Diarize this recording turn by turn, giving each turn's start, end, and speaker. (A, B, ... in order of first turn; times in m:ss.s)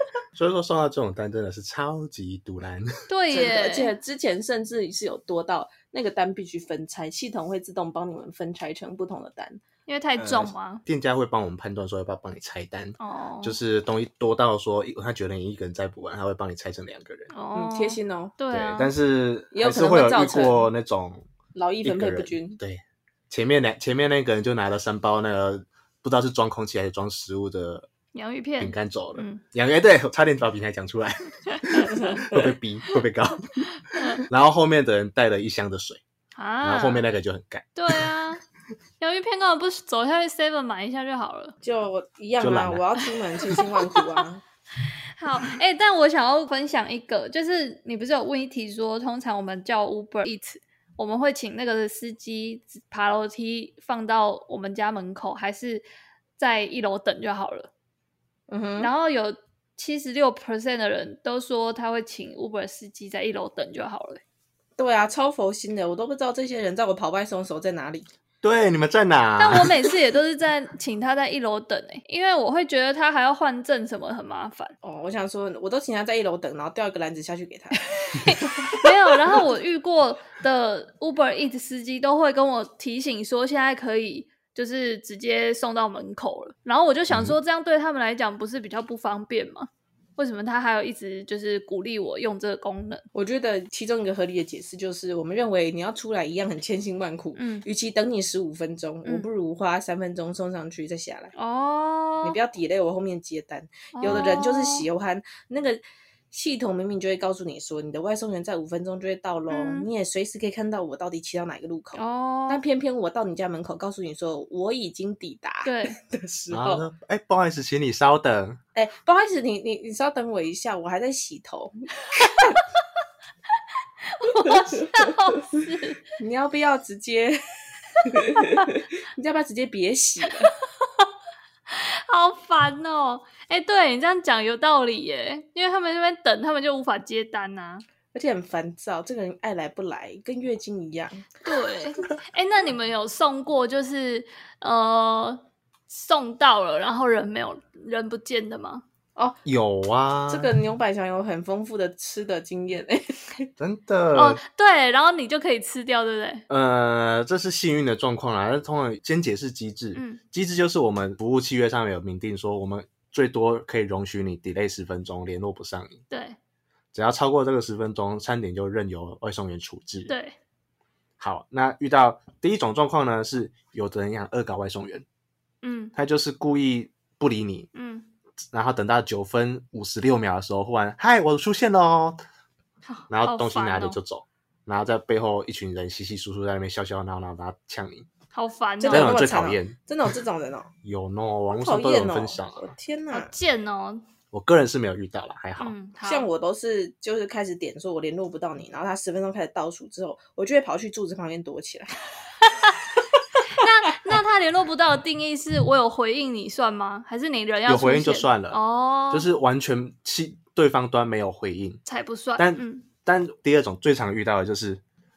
0:00.3-0:02.9 A
0:03.1-0:03.9 B
0:03.3-0:09.6 C
0:09.9-0:10.8 B
0:10.2-0:17.3 A
0:13.0-0:13.6 B
0:17.3-0:18.9 B
0:17.5-0:18.3 C
0:18.5-0:21.2 A
0:19.5-0:20.7 C
0:21.5-0:22.6 C
0:21.8-0:27.9 A
0:28.1-0:29.4 B
0:28.6-0:33.7 A
0:33.9-0:34.3 B
0:34.3-0:36.0 A
0:36.3-0:37.0 B
0:36.6-0:38.1 A
0:37.8-0:38.4 B
0:39.0-0:41.5 B
0:41.6-0:44.4 C
0:42.4-0:42.8 A
0:43.5-0:44.2 B
0:45.2-0:55.8 B
0:56.4-0:57.7 B
0:58.5-0:58.9 C
0:58.8-1:04.2 B
1:04.8-1:08.1 C
1:08.4-1:09.8 A
1:09.4-1:14.7 B
1:14.8-1:18.8 C
1:18.2-1:33.0 B
1:27.1-1:27.4 A
1:33.1-1:41.3 C
1:37.4-1:37.6 B
1:41.3-1:42.4 B
1:42.2-1:56.9 C
1:44.0-1:44.8 B
1:49.5-1:49.9 B
1:52.0-1:52.6 B
1:55.6-1:56.0 B
1:56.5-1:58.6 A
1:58.7-2:02.6 C
2:04.0-2:06.0 B
2:06.2-2:07.4 C
2:08.0-2:10.5 C
2:11.7-2:17.8 B
2:18.1-2:21.4 C
2:21.4-2:28.8 B
2:29.4-2:30.5 A
2:30.3-2:33.5 C
2:33.6-2:34.4 A
2:34.1-2:36.4 B
2:36.5-2:46.0 A
2:39.9-2:40.2 B
2:46.1-2:46.4 B
2:46.9-2:50.1 A
2:50.1-2:50.4 B
2:51.2-2:55.0 A
2:55.6-2:55.9 B
2:55.9-2:57.7 A
2:57.7-2:58.0 B
2:58.5-3:02.2 A
3:02.9-3:04.0 B
3:03.1-3:08.1 A
3:08.3-3:09.2 B
3:08.8-3:10.7 C
3:08.9-3:09.8 A
3:10.8-3:12.6 A
3:11.6-3:13.3 C
3:13.1-3:14.0 B
3:14.3-3:15.7 A
3:15.6-3:16.3 B
3:16.0-3:21.9 C
3:23.4-3:29.3 B
3:27.7-3:28.6 A
3:29.1-3:31.8 A
3:31.8-3:32.8 B
3:32.4-3:34.8 A